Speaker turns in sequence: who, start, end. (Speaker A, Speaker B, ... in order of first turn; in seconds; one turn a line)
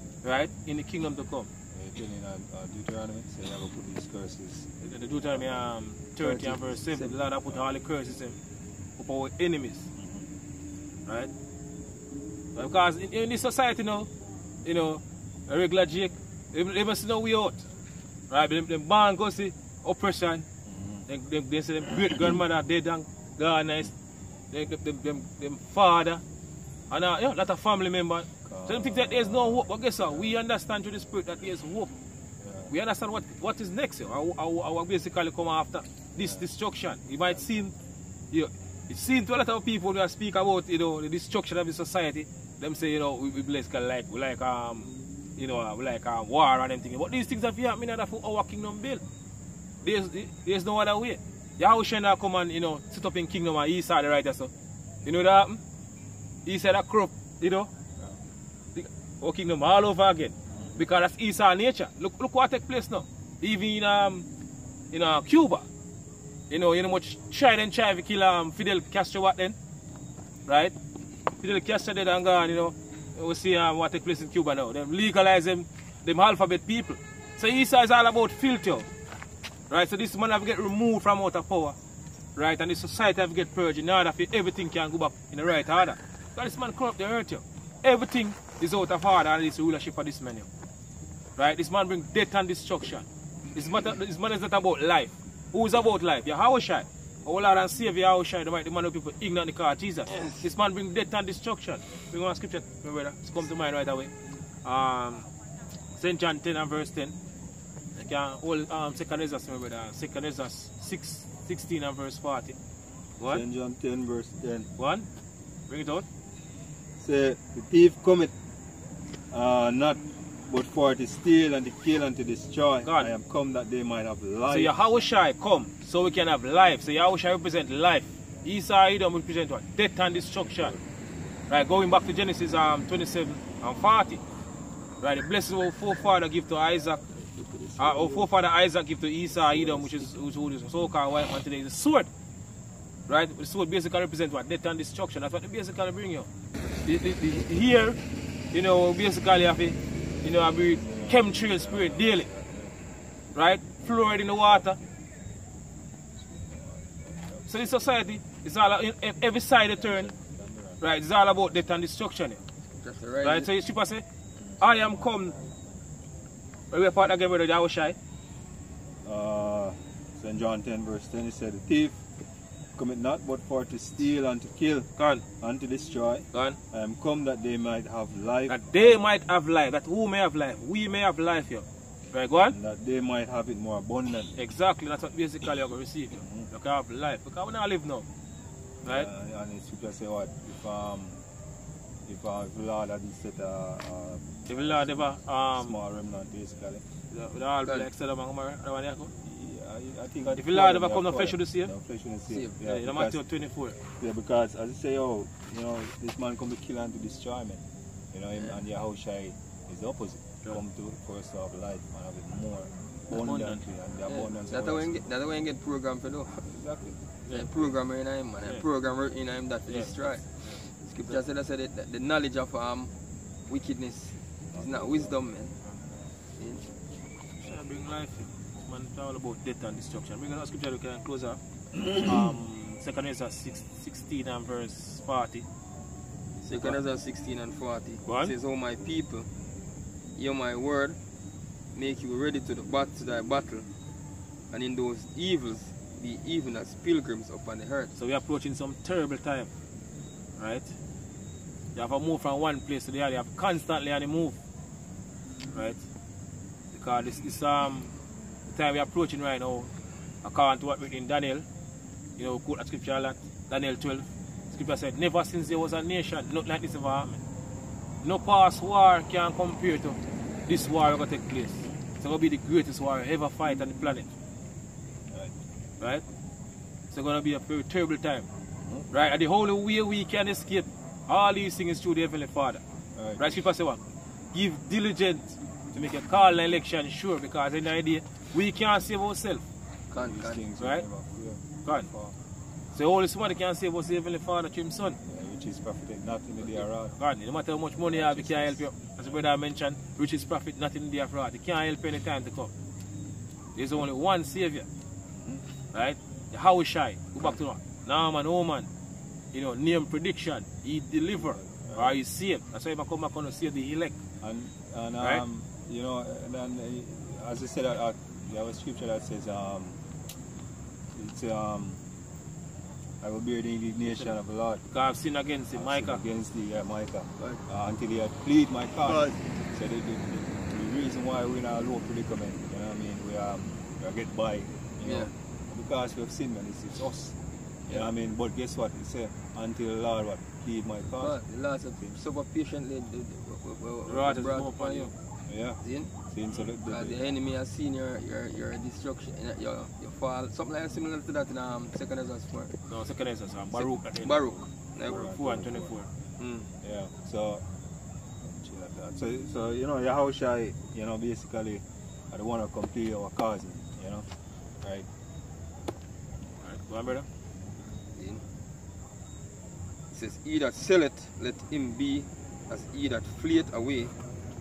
Speaker A: 0.2-1.5
Speaker B: 1.7-4.7
Speaker A: 4.8-8.4
Speaker B: 5.3-5.5
Speaker C: 6.2-7.1
Speaker A: 9.0-9.9
Speaker B: 9.9-10.3
Speaker A: 12.5-14.1
Speaker A: 14.6-17.7
Speaker A: 18.3-20.5
Speaker B: 20.6-21.1
Speaker A: 21.1-23.9
Speaker A: 24.5-26.2
Speaker A: 26.9-31.9
Speaker B: 28.4-30.3
Speaker B: 32.4-32.7
Speaker A: 32.7-37.7
Speaker B: 36.2-36.4
Speaker A: 38.3-49.0
Speaker A: 49.8-54.5
Speaker A: 55.0-55.6
Speaker A: 56.4-57.7
Speaker A: 58.7-64.3
Speaker B: 60.5-60.8
Speaker A: 64.9-65.7
Speaker A: 66.5-69.5
Speaker A: 70.5-70.7
Speaker A: 71.4-78.9
Speaker A: 79.7-81.8
Speaker A: 82.3-90.5
Speaker A: 91.4-104.1
Speaker A: 104.6-105.3
Speaker A: 106.0-107.2
Speaker A: 108.0-112.6
Speaker B: 113.3-114.7
Speaker A: 114.8-115.1
Speaker A: 115.7-116.0
Speaker B: 117.0-118.3
Speaker B: 119.3-124.8
Speaker A: 122.8-123.1
Speaker A: 124.5-130.7
Speaker B: 130.5-130.8
Speaker A: 131.5-134.2
Speaker A: 135.0-137.0
Speaker B: 137.5-138.3
Speaker A: 137.8-142.1
Speaker B: 139.4-140.0
Speaker A: 143.1-146.3
Speaker A: 146.8-148.0
Speaker A: 148.5-152.3
Speaker B: 150.8-152.8
Speaker A: 153.3-154.8
Speaker B: 154.0-154.9
Speaker B: 156.2-158.2
Speaker A: 157.5-160.1
Speaker B: 159.7-160.8
Speaker A: 160.8-162.4
Speaker C: 162.8-163.5
Speaker A: 163.2-164.0
Speaker B: 164.4-165.7
Speaker A: 164.6-165.3
Speaker A: 166.7-167.9
Speaker B: 169.0-172.0
Speaker B: 172.8-179.0
Speaker A: 175.0-175.2
Speaker A: 176.3-176.6
Speaker A: 178.5-182.6
Speaker B: 182.5-184.4
Speaker A: 184.4-188.1
Speaker B: 186.2-186.5
Speaker B: 188.8-191.2
Speaker B: 192.1-196.8
Speaker A: 194.5-195.8
Speaker A: 197.1-199.1
Speaker B: 199.2-203.2
Speaker A: 200.3-201.7
Speaker C: 202.3-202.6
Speaker A: 202.6-203.8
Speaker B: 204.0-207.6
Speaker B: 208.1-215.1
Speaker A: 213.1-213.7
Speaker C: 214.1-216.5
Speaker B: 216.5-217.0
Speaker C: 217.3-222.9
Speaker A: 219.7-220.6
Speaker C: 223.5-225.6
Speaker B: 224.5-225.2
Speaker C: 226.4-226.7
Speaker A: 227.4-231.4
Speaker A: 231.9-235.4
Speaker C: 236.4-239.3
Speaker A: 238.1-238.3
Speaker C: 240.2-241.0
Speaker C: 241.7-243.7
Speaker C: 244.5-247.9
Speaker A: 247.9-249.5
Speaker A: 250.4-250.7
Speaker A: 251.7-254.4
Speaker A: 255.5-255.8
Speaker A: 256.7-257.9
Speaker A: 258.5-259.7
Speaker A: 260.2-261.4
Speaker A: 262.2-267.2
Speaker A: 268.0-274.1
Speaker B: 275.1-275.4
Speaker A: 276.9-278.2
Speaker B: 278.6-278.9
Speaker A: 278.9-282.6
Speaker B: 282.9-283.4
Speaker A: 283.2-283.8
Speaker A: 284.3-289.4
Speaker C: 289.9-290.4
Speaker B: 289.9-292.1
Speaker A: 290.6-290.8
Speaker A: 292.7-295.0
Speaker B: 295.0-296.9
Speaker A: 297.0-302.5
Speaker B: 297.8-299.1
Speaker A: 303.6-304.7
Speaker B: 305.1-305.4
Speaker A: 305.7-308.7
Speaker A: 309.3-313.9
Speaker B: 311.2-312.0
Speaker B: 314.2-319.8
Speaker B: 320.9-321.8
Speaker B: 323.0-324.6
Speaker A: 323.9-324.1
Speaker A: 324.7-326.0
Speaker B: 325.5-337.2
Speaker C: 328.9-329.2
Speaker C: 334.8-335.1
Speaker B: 337.7-341.2
Speaker C: 340.9-344.9
Speaker A: 343.9-344.9
Speaker B: 345.3-347.1
Speaker C: 345.6-345.9
Speaker C: 346.6-352.6
Speaker A: 352.7-354.4
Speaker C: 353.5-355.1
Speaker B: 354.8-355.7
Speaker A: 355.0-355.9
Speaker C: 356.2-356.5
Speaker B: 356.6-357.4
Speaker B: 358.2-364.1
Speaker B: 364.6-364.9
Speaker A: 366.4-367.1
Speaker C: 367.9-368.2
Speaker C: 369.9-373.9